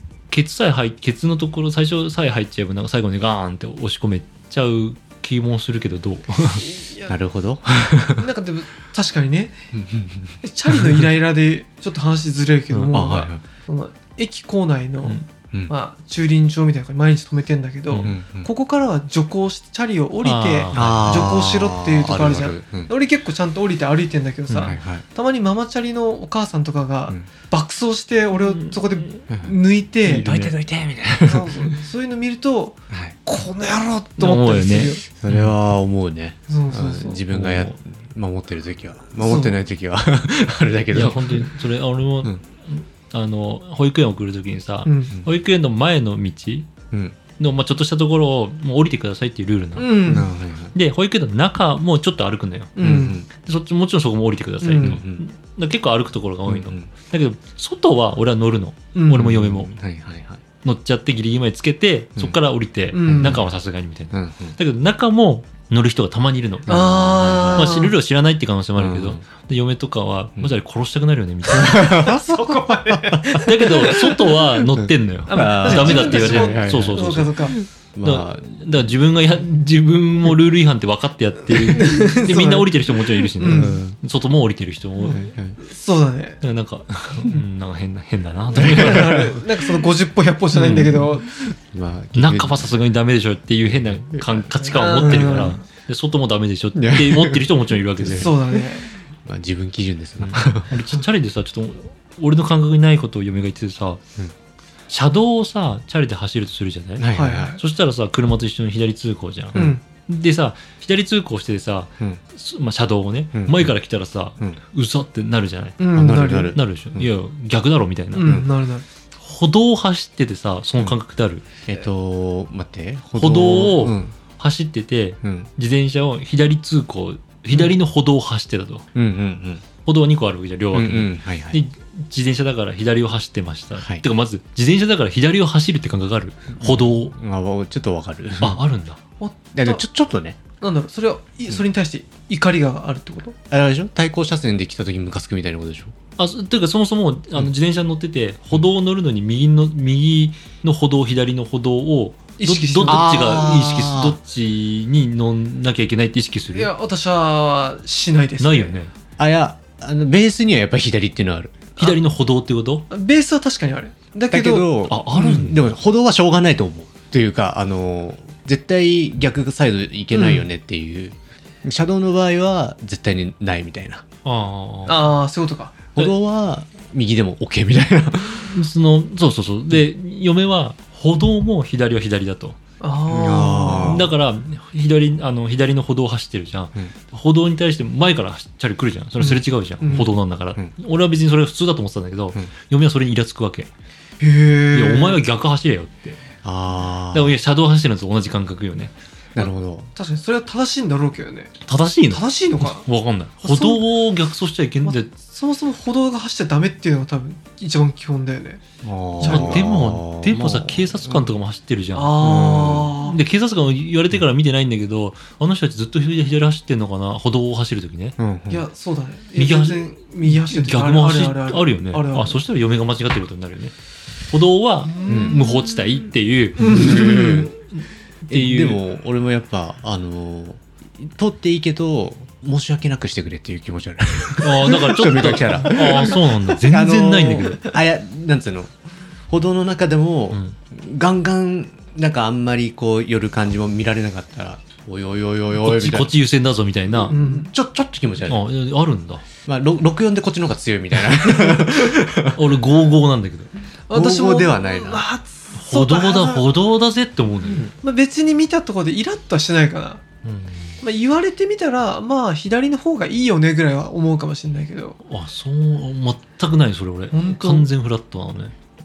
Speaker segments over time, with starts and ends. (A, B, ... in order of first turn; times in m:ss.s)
0:00.3-0:06.7 A
0:06.6-0:07.1 B
0:07.1-0:08.3 C
0:08.2-0:09.6 B
0:09.7-0:11.1 C
0:10.4-0:30.2 B
0:12.7-0:13.0 A
0:12.9-0:13.4 C
0:17.9-0:18.2 A
0:18.0-0:18.5 C
0:20.2-0:21.3 A
0:20.7-0:22.9 C
0:24.5-0:25.0 C
0:28.3-0:29.2 A
0:30.0-0:30.5 A
0:30.1-0:31.8 C
0:31.2-0:35.0 B
0:32.9-0:33.2 C
0:34.2-0:35.5 A
0:35.1-0:41.5 C
0:36.5-0:37.2 B
0:37.3-0:37.8 A
0:39.2-0:39.6 B
0:40.9-0:46.7 A
0:44.8-0:45.1 B
0:46.9-0:47.2 C
0:47.4-0:50.2 A
0:49.8-0:50.3 B
0:50.1-0:50.7 C
0:50.7-0:52.8 A
0:52.8-0:53.2 B
0:52.8-0:53.3 C
0:53.3-0:59.7 A
0:54.6-0:55.0 B
0:54.8-0:55.2 C
0:56.5-0:56.9 C
0:59.0-0:59.3 B
0:59.1-1:00.4 C
1:00.6-1:11.8 A
1:02.9-1:03.4 B
1:03.1-1:03.5 C
1:04.1-1:04.6 C
1:06.7-1:07.8 C
1:06.7-1:08.0 B
1:08.8-1:09.2 C
1:11.5-1:18.6 C
1:11.6-1:14.1 B
1:13.3-1:17.4 A
1:15.3-1:17.6 B
1:18.0-1:25.3 A
1:21.6-1:23.8 B
1:23.4-1:24.0 C
1:25.1-1:25.6 C
1:25.6-1:26.4 B
1:26.4-1:29.3 A
1:28.5-1:29.4 C
1:28.5-1:31.3 B
1:30.5-1:31.0 A
1:31.3-1:32.7 C
1:32.2-1:38.3 A
1:33.7-1:34.4 C
1:34.6-1:35.6 B
1:35.0-1:35.5 C
1:36.8-1:38.6 C
1:38.1-1:38.9 B
1:39.2-1:40.7 C
1:40.2-1:44.0 A
1:44.9-1:55.9 A
1:47.0-1:47.6 C
1:47.1-1:47.6 B
1:49.5-1:49.8 B
1:53.4-1:53.7 C
1:55.8-1:56.6 B
1:55.9-1:57.1 C
1:56.5-1:58.4 A
1:58.1-1:58.8 B
1:58.2-1:58.5 C
1:59.2-2:01.5 A
2:01.7-2:04.2 C
2:03.2-2:08.8 A
2:05.2-2:05.5 C
2:09.0-2:09.6 C
2:09.8-2:17.2 A
2:10.7-2:11.6 C
2:16.6-2:18.6 C
2:18.4-2:19.0 A
2:19.2-2:19.8 B
2:19.5-2:20.4 C
2:20.6-2:23.4 B
2:23.5-2:25.9 C
2:26.2-2:36.7 A
2:32.4-2:33.5 B
2:32.9-2:34.2 C
2:36.5-2:38.8 B
2:38.4-2:38.9 A
2:39.2-2:41.7 C
2:41.8-2:42.9 A
2:42.9-2:44.7 B
2:44.3-2:54.0 C
2:44.9-2:45.7 A
2:50.1-2:50.4 B
2:54.2-2:55.1 A
2:54.9-2:55.7 B
2:56.0-2:58.5 C
2:58.5-3:02.6 A
3:02.8-3:04.1 B
3:03.1-3:04.1 C
3:03.7-3:13.7 A
3:09.2-3:10.1 B
3:14.2-3:15.2 B
3:14.7-3:16.2 A
3:16.4-3:17.3 C
3:17.1-3:18.9 A
3:19.4-3:19.9 C
3:19.4-3:21.5 B
3:21.6-3:25.1 A
3:22.1-3:22.9 B
3:23.4-3:23.8 B
3:24.8-3:28.6 B
3:28.8-3:31.3 C
3:29.2-3:29.7 B
3:29.2-3:32.4 A
3:31.9-3:33.2 B
3:32.2-3:33.0 C
3:33.0-3:38.2 A
3:38.2-3:38.6 C
3:38.5-3:42.4 B
3:39.4-3:43.7 A
3:44.3-3:48.8 A
3:44.8-3:45.9 B
3:45.1-3:45.4 C
3:46.6-3:47.5 B
3:46.6-3:47.5 C
3:48.3-3:58.7 C
3:54.4-3:57.6 A
3:55.9-3:56.2 B
3:59.3-4:06.1 C
4:05.6-4:07.2 A
4:06.9-4:08.4 C
4:07.1-4:07.5 B
4:08.3-4:09.2 A
4:09.5-4:12.5 C
4:12.3-4:13.5 A
4:13.9-4:16.5 B
4:13.9-4:15.1 C
4:15.5-4:17.7 A
4:17.7-4:20.0 B
4:20.2-4:20.8 A
4:20.8-4:25.0 B
4:25.1-4:28.5 A
4:27.1-4:27.7 B